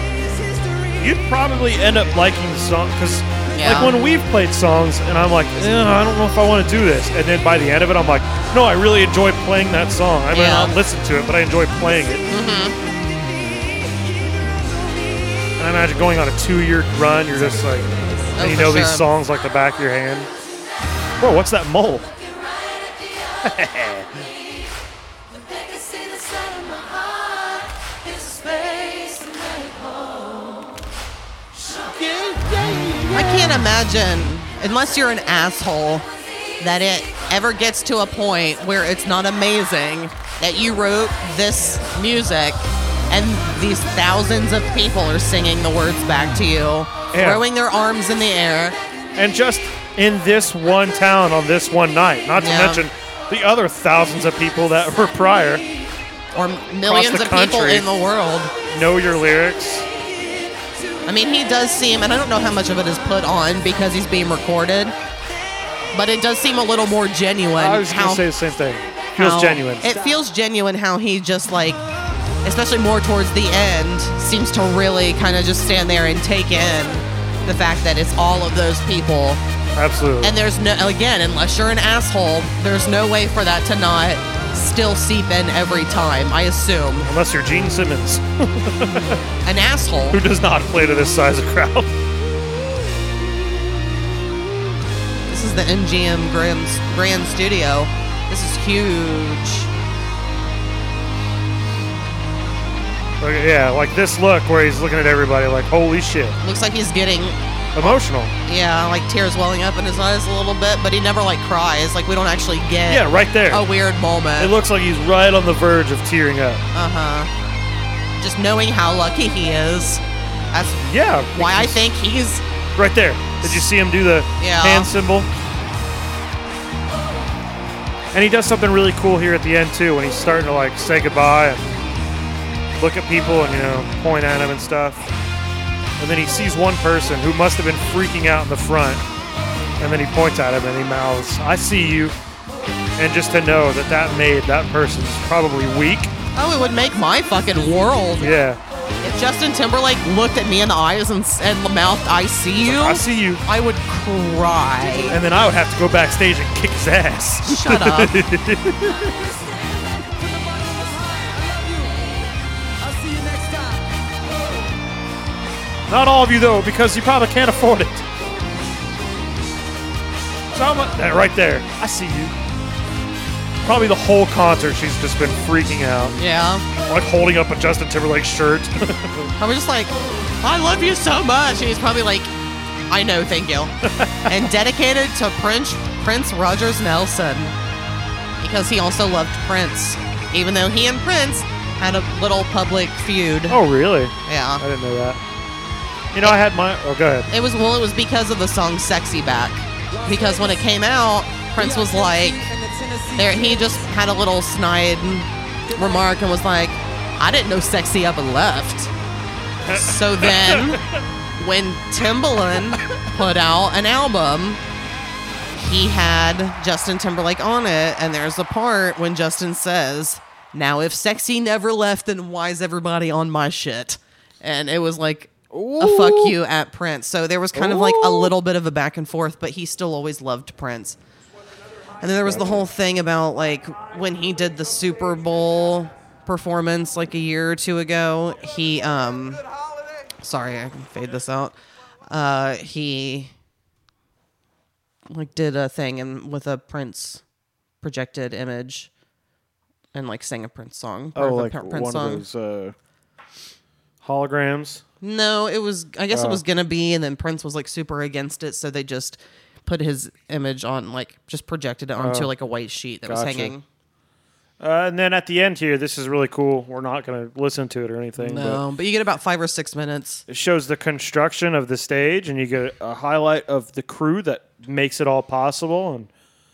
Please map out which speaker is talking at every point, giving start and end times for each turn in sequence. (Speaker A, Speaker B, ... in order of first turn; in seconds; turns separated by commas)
Speaker A: 0.2-1.0, Speaker B: 1.0-12.2, Speaker C: 3.5-4.0, Speaker C: 10.3-10.7, Speaker C: 12.3-12.8, Speaker B: 15.6-20.3, Speaker C: 18.4-19.1, Speaker B: 21.2-22.1, Speaker B: 23.4-24.2, Speaker A: 25.4-30.6, Speaker B: 31.7-33.6, Speaker C: 33.1-36.0, Speaker C: 36.6-48.8, Speaker B: 47.1-47.4, Speaker B: 49.1-55.6, Speaker C: 52.4-52.8, Speaker C: 56.3-58.5, Speaker B: 56.8-57.9, Speaker B: 58.7-59.9, Speaker C: 61.1-64.9, Speaker C: 65.9-68.2, Speaker B: 67.6-69.9, Speaker C: 69.2-71.8, Speaker C: 72.4-79.4, Speaker B: 79.7-80.3, Speaker C: 80.2-87.1, Speaker B: 87.0-89.2, Speaker C: 89.4-90.2, Speaker B: 90.1-91.9, Speaker C: 95.3-99.7, Speaker B: 103.2-106.4, Speaker C: 106.4-114.5, Speaker B: 107.7-108.3, Speaker B: 112.9-113.7, Speaker B: 114.4-116.6, Speaker C: 116.7-117.3, Speaker C: 118.2-120.8, Speaker B: 120.8-121.8, Speaker C: 121.3-122.4, Speaker B: 122.8-125.3, Speaker C: 124.4-124.9, Speaker B: 128.1-131.8, Speaker B: 132.8-135.0, Speaker B: 136.0-139.0, Speaker B: 139.8-142.1, Speaker B: 143.0-146.1, Speaker C: 146.3-148.3, Speaker B: 148.2-148.6, Speaker C: 149.0-155.2, Speaker B: 152.6-153.4, Speaker B: 155.1-159.2, Speaker C: 157.4-158.2, Speaker A: 160.0-162.1, Speaker A: 162.8-163.9, Speaker B: 165.9-168.1, Speaker B: 170.5-172.3, Speaker B: 173.6-176.2, Speaker C: 176.2-176.6, Speaker B: 176.8-179.3, Speaker C: 179.4-182.3, Speaker C: 182.9-183.7, Speaker B: 183.8-184.4, Speaker C: 184.2-187.5, Speaker C: 188.4-193.6, Speaker B: 193.5-195.2, Speaker C: 194.2-194.6, Speaker B: 196.1-197.3, Speaker C: 197.3-202.4, Speaker A: 200.0-200.6, Speaker A: 201.6-203.8, Speaker C: 203.2-208.9, Speaker B: 209.7-211.0, Speaker C: 209.7-210.8, Speaker C: 211.4-214.6, Speaker C: 215.6-231.0, Speaker B: 225.5-226.4, Speaker B: 227.5-228.3, Speaker C: 232.0-239.4, Speaker B: 232.2-232.6, Speaker C: 240.2-241.5, Speaker C: 242.1-243.3, Speaker C: 245.1-247.2, Speaker C: 247.8-248.9, Speaker C: 249.9-252.2, Speaker B: 251.1-252.7, Speaker B: 254.0-254.8, Speaker C: 255.0-263.6, Speaker B: 256.1-256.4, Speaker B: 262.0-262.3, Speaker B: 263.1-263.5, Speaker B: 264.6-268.6, Speaker C: 268.2-270.2, Speaker B: 270.3-276.1